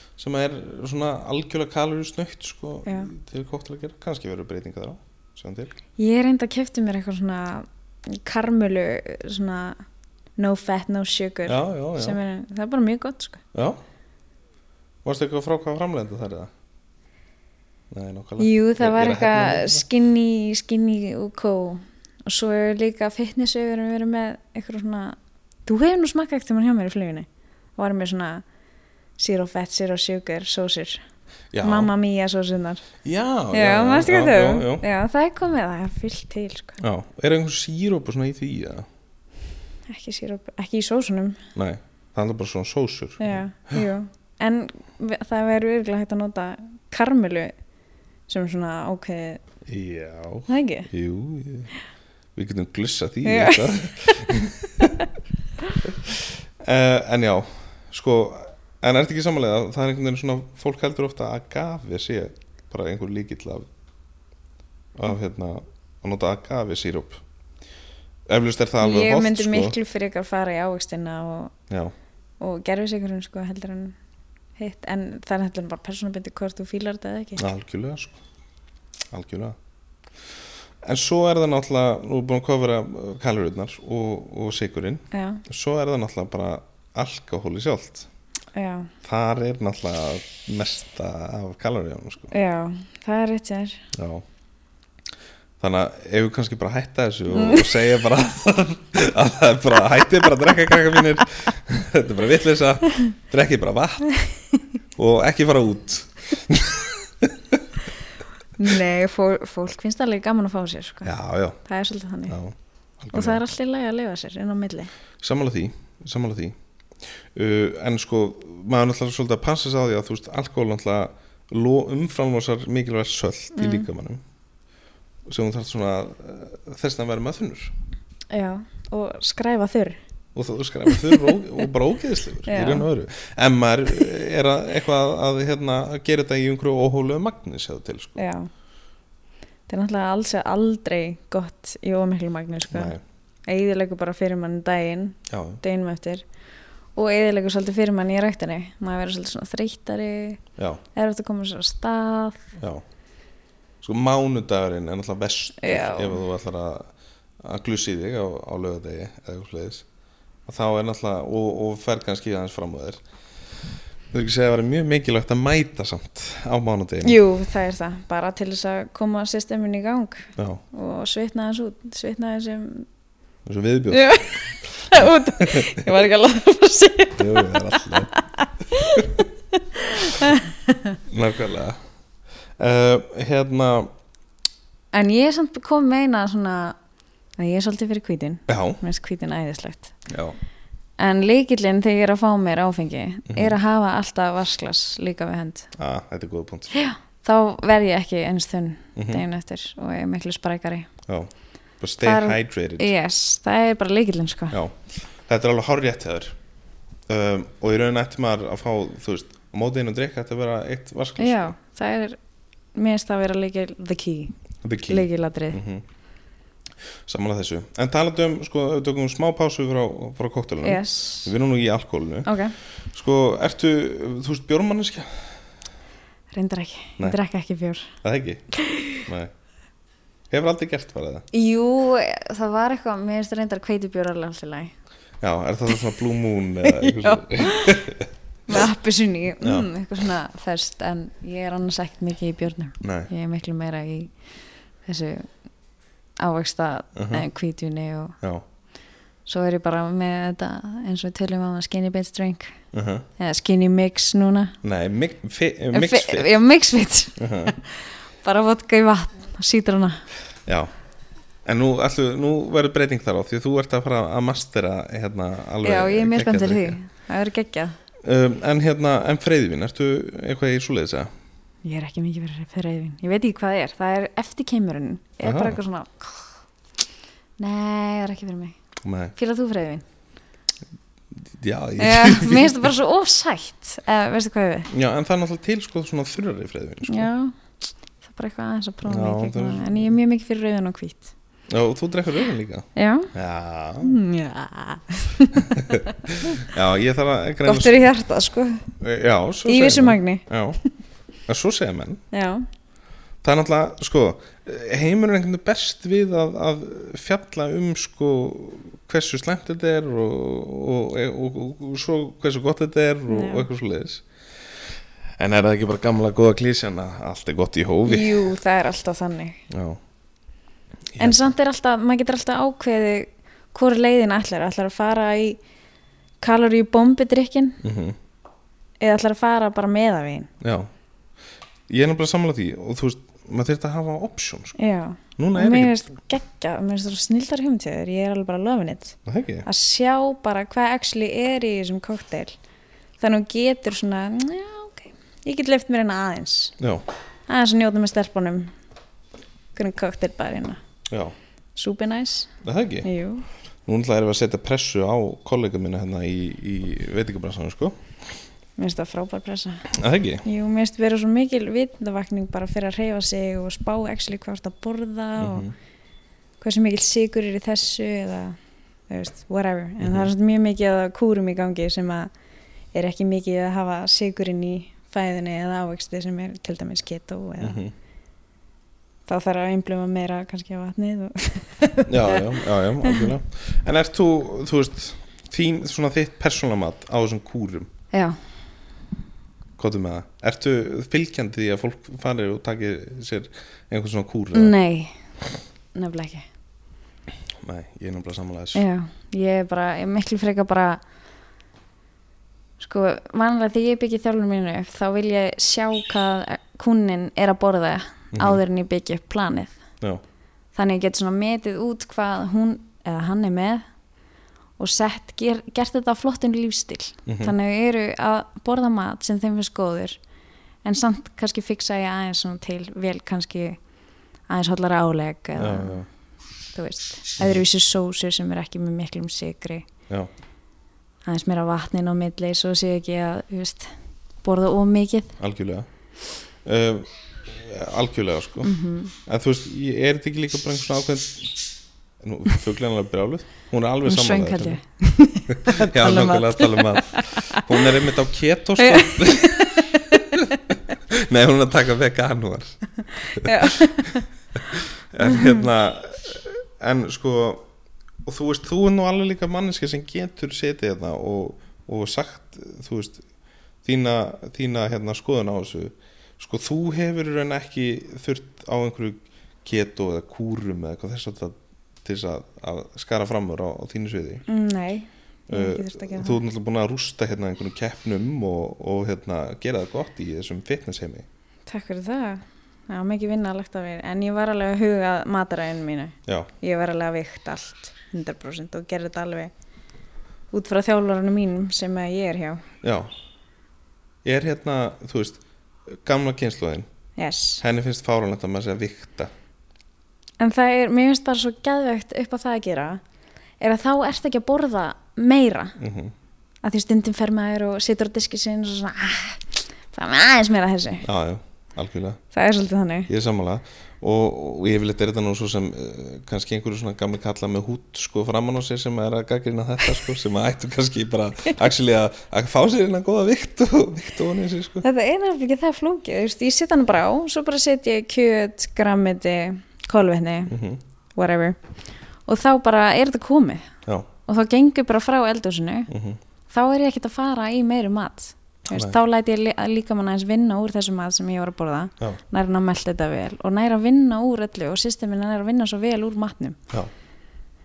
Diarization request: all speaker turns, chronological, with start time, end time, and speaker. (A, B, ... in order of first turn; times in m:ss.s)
0:00.2-0:05.8 A
0:02.9-0:03.1 B
0:06.0-0:09.8 B
0:10.4-0:13.4 B
0:11.5-0:12.2 A
0:13.5-0:13.8 A
0:15.0-0:16.5 A
0:17.9-0:19.8 A
0:18.4-0:28.4 B
0:29.2-0:31.0 B
0:31.5-0:31.9 A
0:31.6-0:32.9 B
0:33.0-0:34.8 A
0:33.5-0:36.8 B
0:36.8-0:38.9 A
0:39.9-0:41.4 B
0:41.6-0:43.8 A
0:43.2-0:47.5 B
0:48.3-0:49.4 B
0:49.7-0:51.7 A
0:50.5-0:50.9 B
0:52.4-0:55.0 A
0:53.2-0:55.1 B
0:55.8-1:03.7 A
1:05.0-1:07.2 A
1:08.3-1:09.8 A
1:08.8-1:11.5 B
1:11.7-1:11.9 A
1:12.4-1:14.0 B
1:14.6-1:17.5 B
1:17.4-1:18.2 A
1:19.1-1:19.6 A
1:20.8-1:28.1 A
1:25.1-1:25.4 B
1:28.5-1:28.9 B
1:29.0-1:32.3 A
1:32.3-1:33.8 B
1:33.9-1:34.2 A
1:35.6-1:44.1 A
1:37.3-1:37.8 B
1:45.0-1:47.6 A
1:48.6-1:51.1 B
1:51.0-1:51.6 A
1:51.6-1:52.4 B
1:52.3-1:53.4 A
1:53.1-1:54.9 B
1:55.2-1:56.6 A
1:57.3-2:04.2 A
2:03.6-2:03.9 B
2:05.3-2:07.7 A
2:08.3-2:10.0 B
2:10.4-2:18.2 A
2:10.9-2:11.4 B
2:12.5-2:12.9 B
2:18.2-2:18.5 B
2:19.7-2:23.0 B
2:22.7-2:23.0 A
2:23.5-2:26.2 B
2:25.3-2:25.6 A
2:27.0-2:30.4 B
2:30.6-2:30.8 A
2:31.0-2:32.5 B
2:32.6-2:32.8 A
2:33.8-2:39.9 A
2:35.6-2:36.2 B
2:40.5-2:43.0 A
2:44.1-2:47.2 A
2:47.0-2:52.9 B
2:50.4-2:50.6 A
2:53.5-2:54.3 A
2:53.9-3:01.0 B
2:54.9-2:55.8 A
2:57.2-2:58.1 A
3:01.1-3:01.8 A
3:02.6-3:03.9 A
3:04.9-3:06.8 B
3:07.4-3:10.0 B
3:08.5-3:08.8 A
3:10.1-3:10.4 A
3:11.0-3:15.7 B
3:13.3-3:13.6 A
3:15.8-3:16.7 A
3:16.7-3:20.9 B
3:19.0-3:19.2 A
3:21.1-3:22.9 A
3:22.0-3:24.6 B
3:24.5-3:26.4 A
3:27.1-3:31.5 A
3:31.2-3:32.2 B
3:32.8-3:35.6 B
3:34.6-3:35.8 A
3:37.1-3:42.3 A
3:40.6-3:41.3 B
3:42.2-3:42.6 B
3:42.9-3:45.3 A
3:46.3-3:47.9 B
3:48.0-3:48.4 A
3:48.6-3:49.0 B
3:49.0-3:49.3 A
3:50.3-3:51.3 A
3:51.3-3:54.7 B
3:55.2-3:58.1 A
3:56.7-3:57.8 B
3:58.5-4:04.1 B
3:59.4-3:59.7 A
4:02.8-4:03.1 A
4:04.9-4:05.3 B
4:06.2-4:08.2 B
4:07.0-4:07.3 A
4:09.3-4:12.6 B
4:12.7-4:13.1 A
4:13.2-4:14.6 B
4:14.6-4:16.3 A
4:15.7-4:20.0 B
4:17.2-4:17.5 A
4:20.5-4:20.7 A
4:21.4-4:26.8 A
4:25.6-4:27.8 B
4:28.0-4:31.1 A
4:31.6-4:36.3 B
4:35.2-4:35.6 A
4:37.4-4:38.6 B
4:38.8-4:39.1 A
4:39.2-4:39.8 B
4:41.2-4:42.7 A
4:41.8-4:44.7 B
4:44.7-4:47.1 A
4:46.9-4:47.4 B
4:48.0-4:51.1 B
4:48.8-4:49.9 A
4:51.5-4:54.0 A
4:52.8-4:53.1 B
4:53.8-4:56.5 B
4:55.5-4:57.9 A
4:57.4-4:58.6 B
4:58.8-5:00.6 A
4:59.5-5:00.3 B
5:01.3-5:02.0 A
5:02.1-5:02.4 B
5:03.2-5:18.4 A
5:13.1-5:13.5 B
5:17.9-5:19.4 B
5:19.5-5:19.8 A
5:20.9-5:21.3 A
5:21.0-5:25.4 B
5:26.2-5:27.6 B
5:27.6-5:28.0 A
5:28.8-5:30.3 B
5:30.4-5:30.7 A
5:31.7-5:34.6 A
5:34.6-5:42.4 B
5:35.2-5:35.8 A
5:39.1-5:39.5 A
5:43.0-5:46.6 B
5:46.6-5:46.8 A
5:47.3-5:48.5 B
5:49.6-5:50.6 B
5:50.9-5:51.2 A
5:51.6-5:52.3 B
5:52.4-5:52.9 A
5:52.8-5:53.2 B
5:53.7-5:57.8 A
5:58.6-5:59.7 B
5:59.7-6:00.2 A
6:00.2-6:05.5 B
6:05.2-6:05.5 A
6:06.4-6:08.4 B
6:08.9-6:12.1 B
6:09.8-6:10.1 A
6:12.7-6:17.6 B
6:17.4-6:17.7 A
6:19.1-6:23.1 B
6:21.9-6:27.7 A
6:27.9-6:28.2 B
6:29.6-6:34.6 A
6:34.3-6:35.0 B
6:35.8-6:36.3 B
6:37.4-6:38.6 A
6:38.5-6:40.8 B
6:42.6-6:49.6 B
6:48.1-6:48.4 A
6:50.6-6:53.7 B
6:54.6-7:00.0 B
6:57.1-6:57.3 A
7:00.6-7:03.6 B
7:04.3-7:05.8 B
7:05.4-7:05.9 A
7:06.5-7:09.7 B
7:11.1-7:13.7 B
7:14.2-7:15.2 B
7:15.2-7:15.7 A
7:16.4-7:18.5 A
7:18.4-7:19.0 B
7:19.1-7:21.4 A
7:22.0-7:24.6 A
7:23.8-7:27.7 B
7:25.3-7:32.6 A
7:28.6-7:30.4 B
7:33.0-7:34.1 B
7:33.1-7:37.5 A
7:35.0-7:35.4 B
7:38.0-7:43.0 A
7:43.6-7:54.2 A
7:54.3-7:56.2 B
7:55.3-8:01.1 A
8:01.5-8:09.3 B
8:10.3-8:12.4 B
8:12.6-8:12.9 A
8:14.0-8:16.7 A
8:17.0-8:17.4 B
8:17.4-8:19.1 A
8:20.2-8:22.8 B
8:23.4-8:25.6 B
8:25.6-8:25.9 A
8:26.4-8:30.9 B
8:30.8-8:32.0 A
8:32.1-8:32.9 B
8:32.9-8:44.6 A
8:44.6-8:50.4 B
8:50.3-8:50.6 A
8:51.0-8:51.4 B
8:52.1-8:53.5 B
8:54.1-8:55.7 B
8:55.7-8:56.0 A
8:56.3-9:06.4 B
8:58.5-8:58.8 A